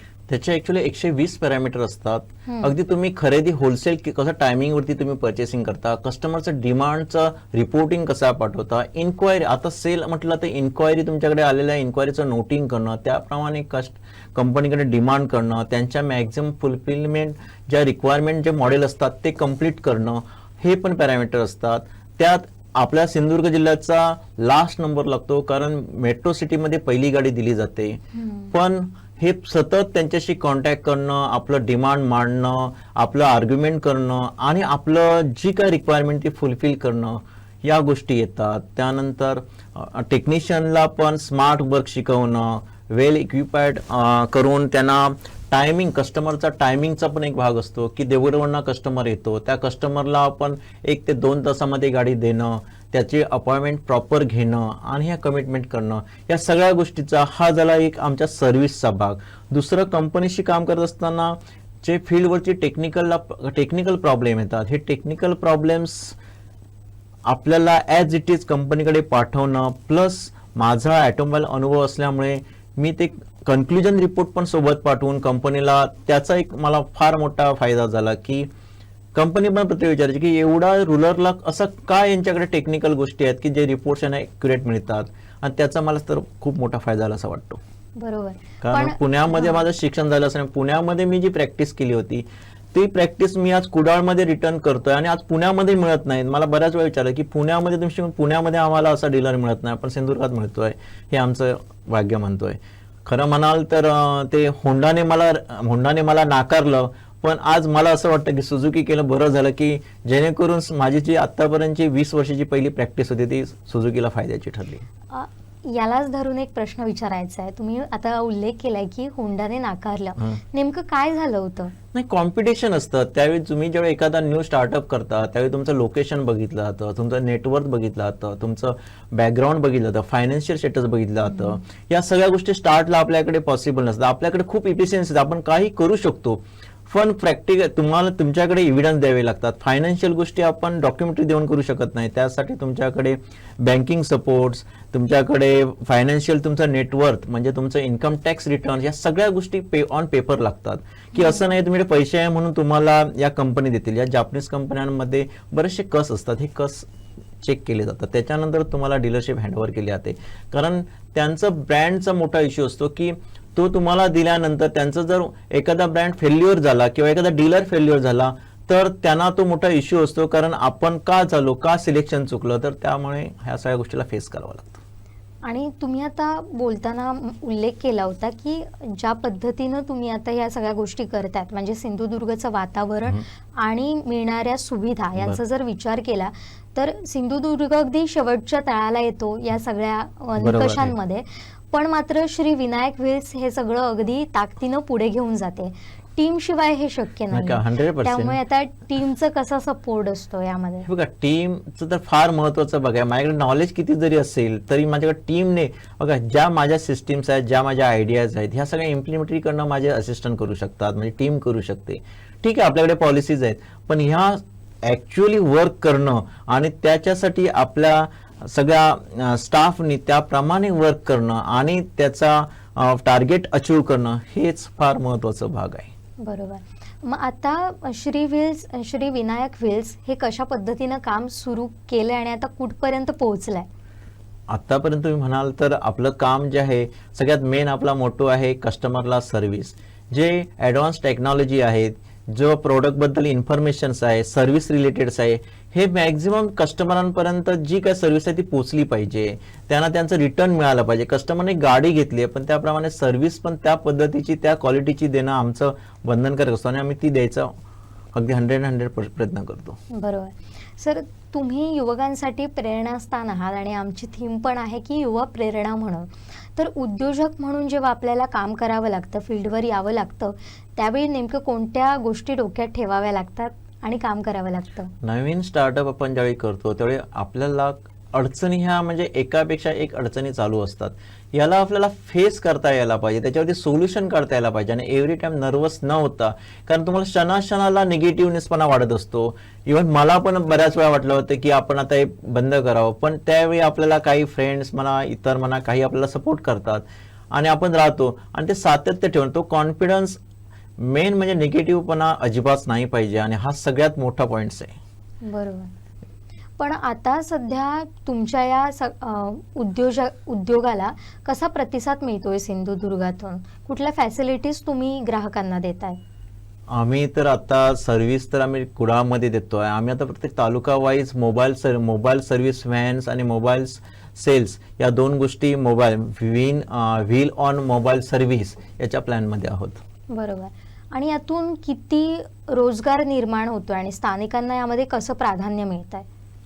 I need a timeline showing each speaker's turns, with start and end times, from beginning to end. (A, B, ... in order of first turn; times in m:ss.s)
0:00.3-1:06.2 A
0:02.5-0:02.7 B
0:28.2-0:28.5 B
1:07.2-1:18.5 A
1:19.2-1:27.6 A
1:28.0-1:29.6 B
1:28.6-1:54.8 A
1:55.1-2:01.7 B
2:01.9-2:36.9 A
2:11.3-2:11.6 B
2:37.4-2:54.8 A
2:55.5-3:20.9 B
3:10.4-3:10.9 A
3:17.3-3:18.4 A
3:20.8-3:45.9 A
3:46.2-3:53.7 B
3:54.5-4:17.5 A
4:18.2-4:19.8 A
4:19.9-4:34.9 B
4:35.0-5:00.2 A
5:00.8-5:04.8 A
5:05.2-5:05.7 B
5:06.6-5:16.0 B
5:16.7-5:29.8 A
5:30.1-5:36.1 B